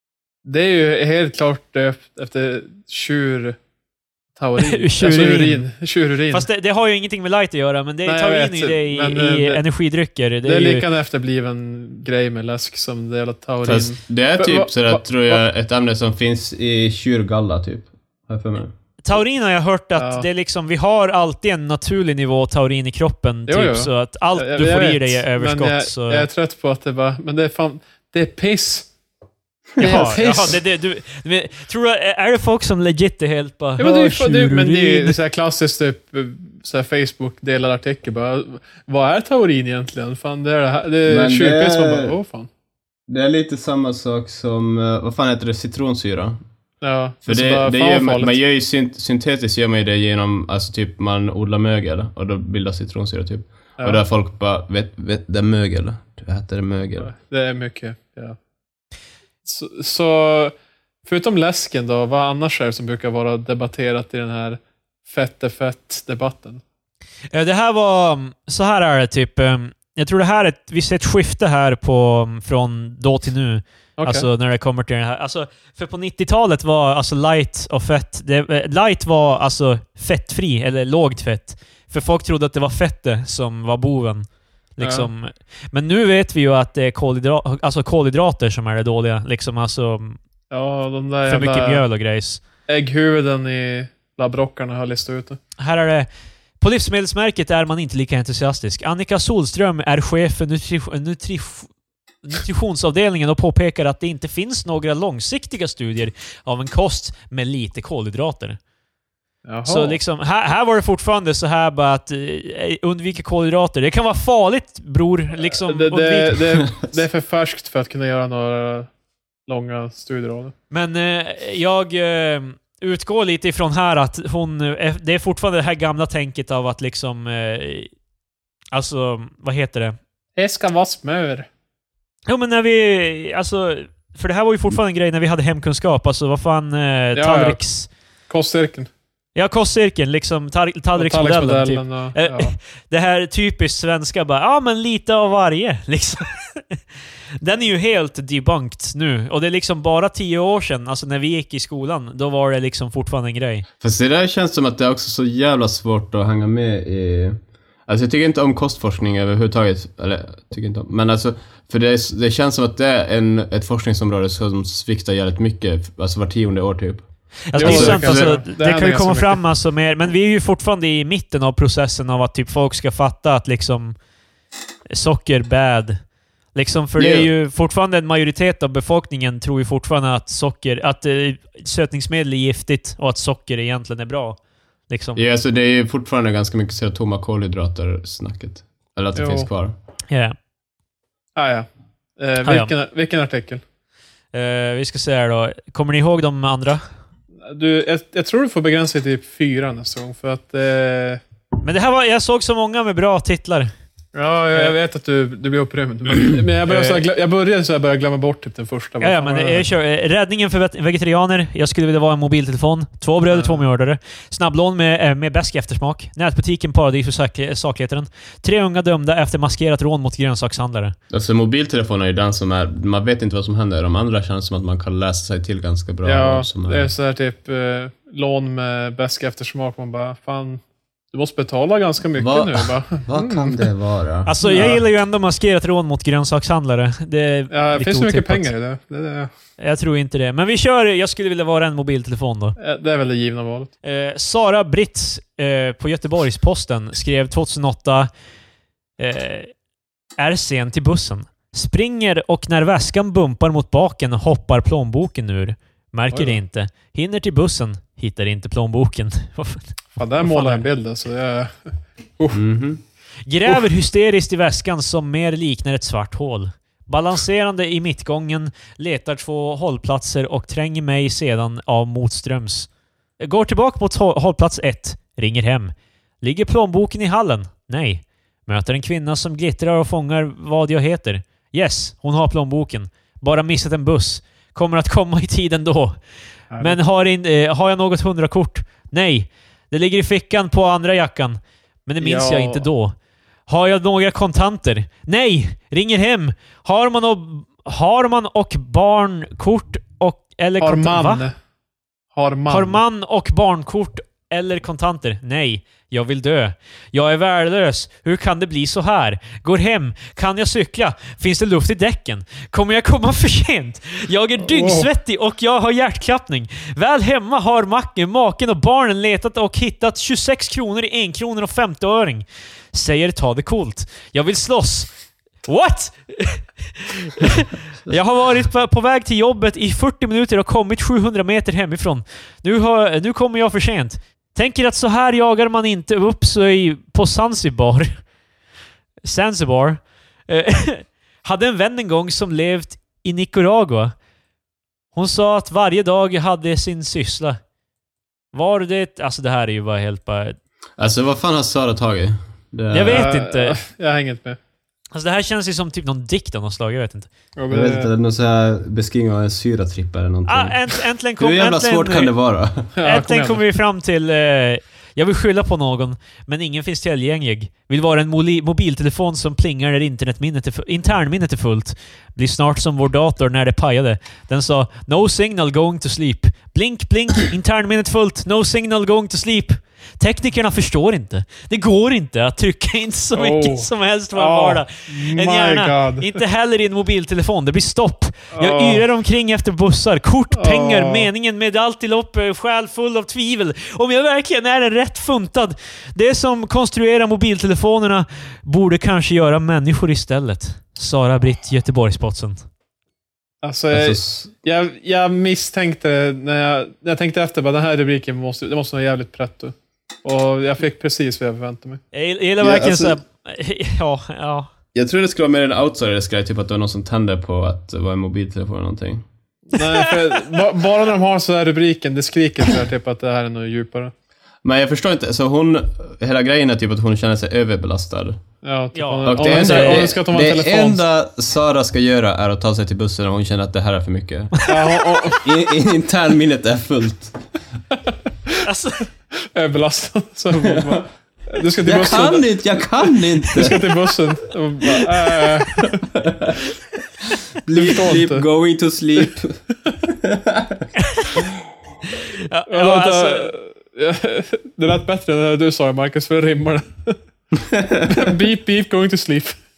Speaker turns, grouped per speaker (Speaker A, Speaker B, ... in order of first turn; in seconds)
Speaker A: 0.5-3.6, 4.4-6.5, 8.1-9.6, 10.4-15.4, 20.0-20.2, 23.5-28.9, 29.8-30.6, 33.8-42.5, 46.8-48.3, 57.0-58.4, 59.5-66.6, 74.0-74.3, 84.8-85.1, 90.5-91.8, 92.7-95.4, 109.5-110.0, 115.5-118.9, 119.5-120.5, 130.4-131.5, 137.2-137.6, 138.3-138.9, 141.0-142.5, 167.6-169.4, 189.2-189.5, 191.4-191.7, 192.2-193.6, 197.5-201.2, 204.1-209.7, 213.3-213.6, 226.0-230.6, 231.1-233.6, 234.4-234.8, 237.5-239.3, 242.6-243.7, 256.1-256.4, 260.0-261.5, 286.5-286.8, 292.0-292.7, 300.6-301.3, 302.1-302.8, 314.4-314.9, 352.9-354.4, 357.4-357.9, 362.8-363.4, 383.1-386.2, 388.3-388.9, 390.3-391.1, 403.4-411.8, 419.5-423.9, 428.4-430.8, 434.5-435.3, 439.3-442.3, 443.3-445.8, 447.5-448.3, 452.5-457.0, 457.9-459.4
Speaker B: 4.6-5.6, 6.3-10.8, 19.0-26.3, 29.8-35.2, 67.3-84.3, 84.8-90.2, 91.3-92.4, 95.6-96.1, 96.6-101.7, 102.2-108.6, 109.7-116.4, 120.7-127.9, 128.7-130.0, 132.3-137.9, 139.3-146.8, 147.4-153.7, 167.5-173.9, 174.9-176.0, 176.6-184.4, 184.9-185.2, 190.1-190.3, 192.4-192.7, 194.3-196.8, 201.6-203.7, 206.7-207.0, 209.0-221.0, 234.3-238.5, 239.6-242.6, 243.8-248.1, 249.0-249.5, 250.2-260.7, 263.3-272.7, 273.2-286.0, 286.6-292.9, 293.5-301.3, 302.5-324.9, 325.4-338.0, 339.1-343.9, 344.9-347.4, 348.3-350.4, 352.7-353.6, 354.9-357.1, 360.3-362.1, 362.8-402.4, 411.9-414.5, 419.6-420.4, 428.7-429.9, 438.4-438.9, 450.8-451.2, 451.9-453.3
Speaker C: 13.6-18.7, 29.8-30.1, 41.1-42.2, 43.1-46.4, 47.3-57.1, 153.8-168.3, 177.0-177.3, 185.2-189.8, 221.1-226.9, 232.2-234.3, 262.3-262.8, 350.8-353.1, 357.5-360.6, 361.2-362.7, 403.7-404.3, 412.4-413.0, 414.7-419.1, 424.4-428.2, 429.1-434.3, 435.2-437.2, 440.4-440.8, 441.6-443.6, 445.9-446.4, 447.4-450.6, 457.4-458.1